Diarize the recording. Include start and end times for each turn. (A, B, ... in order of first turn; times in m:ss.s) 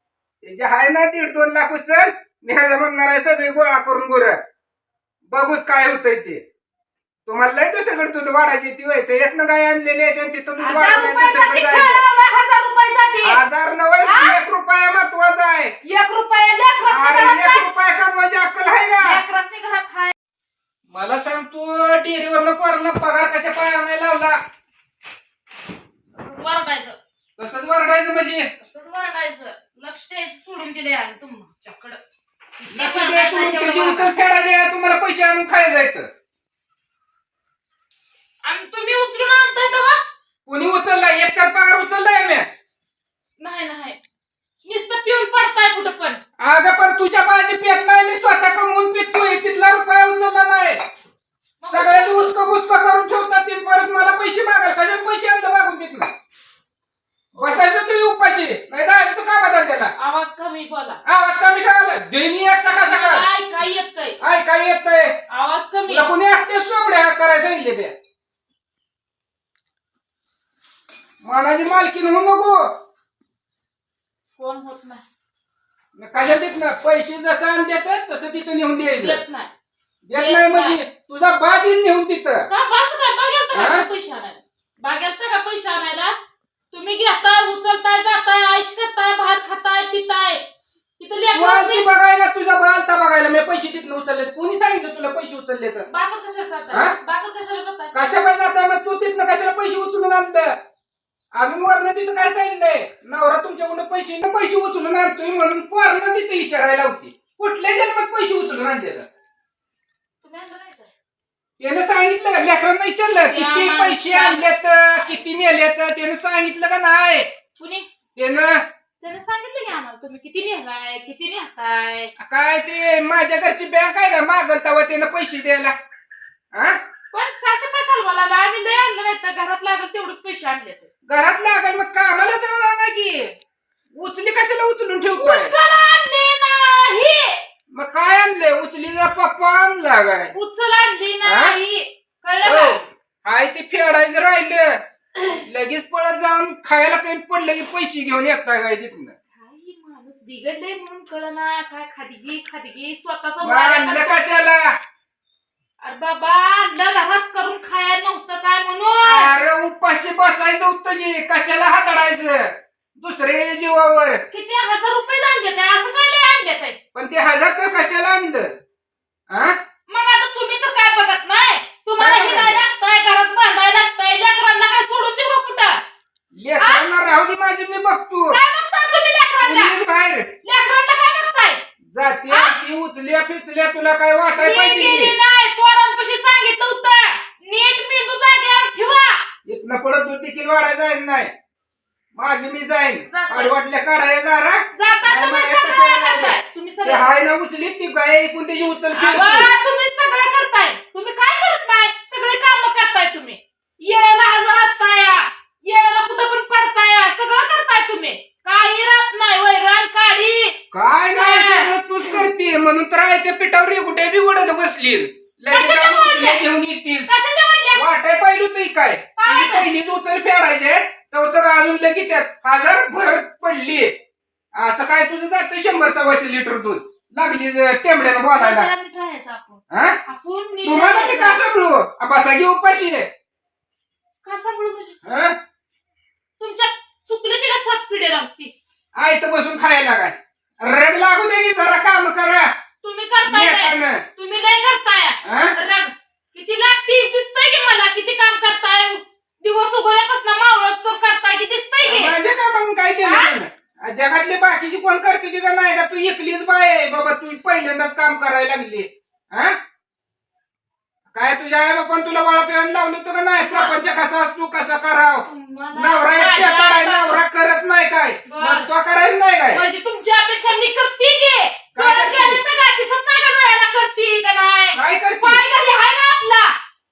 0:00.4-0:04.4 A
0:05.3-0:06.4 A
0:07.2-0:12.0 A
0:10.6-0:13.4 B
0:13.2-0:15.8 A
0:14.0-0:14.4 B
0:15.8-0:17.7 B
0:16.9-0:19.2 A
0:19.0-0:20.1 B
0:20.9-0:24.4 A
0:26.2-0:27.0 B
0:27.4-0:28.5 A
0:28.6-0:32.0 B
0:32.6-0:34.1 B
0:32.7-0:36.1 A
0:38.4-0:40.0 B
0:40.4-0:42.5 A
0:43.4-0:44.0 B
0:44.6-0:46.2 B
0:46.4-0:50.8 A
0:51.6-0:52.4 B
0:51.7-0:56.1 A
0:57.4-0:57.6 B
0:57.4-0:59.9 A
1:00.0-1:01.0 B
1:01.0-1:03.3 A
1:02.6-1:04.2 B
1:04.2-1:05.2 A
1:05.3-1:06.1 B
1:05.9-1:07.9 A
1:11.2-1:12.7 A
1:14.4-1:15.0 B
1:16.0-1:19.2 A
1:19.0-1:19.5 B
1:20.0-1:22.5 A
1:20.1-1:20.8 B
1:22.5-1:26.2 B
1:23.5-1:23.8 A
1:26.7-1:30.4 B
1:31.0-1:31.8 B
1:31.3-1:35.9 A
1:35.9-1:38.0 B
1:36.7-1:37.0 A
1:37.9-1:40.6 A
1:41.3-1:49.0 A
1:50.2-1:50.9 B
1:51.6-1:57.3 A
1:53.2-1:55.2 B
1:57.6-1:57.9 B
1:58.2-1:58.6 A
1:59.0-2:02.1 B
2:02.2-2:05.7 A
2:06.5-2:06.8 A
2:07.1-2:10.9 B
2:11.1-2:13.3 A
2:13.9-2:15.5 A
2:15.2-2:17.4 B
2:17.7-2:20.3 A
2:20.3-2:22.8 B
2:21.2-2:21.6 A
2:22.4-2:24.8 A
2:25.4-2:29.1 A
2:29.3-2:34.2 B
2:33.4-2:34.8 A
2:35.8-2:39.3 B
2:39.0-2:44.2 A
2:44.3-2:46.8 B
2:46.9-2:48.5 A
2:49.3-2:49.6 A
2:49.9-2:55.8 B
2:52.0-2:52.6 A
2:56.3-2:58.4 A
2:56.6-2:56.9 B
2:58.3-2:59.8 B
2:59.4-3:00.3 A
3:00.4-3:01.6 B
3:01.9-3:05.2 A
3:02.3-3:02.6 B
3:04.4-3:09.2 B
3:09.4-3:11.3 A
3:12.1-3:19.5 A
3:13.1-3:13.5 B
3:14.7-3:17.1 B
3:18.9-3:30.6 B
3:30.7-3:37.1 A
3:31.2-3:31.7 B
3:35.5-3:36.4 B
3:37.1-3:37.9 B
3:37.7-3:43.9 A
3:39.2-3:39.7 B
3:44.5-3:48.7 A
3:48.3-3:51.4 B
3:49.7-3:50.0 A
3:50.6-3:53.1 A
3:54.2-3:55.0 B
3:55.0-3:55.3 A
3:56.4-3:58.5 B
3:59.0-4:02.5 A
4:02.8-4:12.2 B
4:03.2-4:04.0 A
4:05.2-4:05.6 A
4:11.8-4:19.6 A
4:13.0-4:13.4 B
4:21.1-4:29.6 A
4:23.5-4:23.8 B
4:25.2-4:27.2 B
4:28.2-4:28.7 B
4:29.5-4:36.5 B
4:31.7-4:32.4 A
4:34.7-4:35.4 A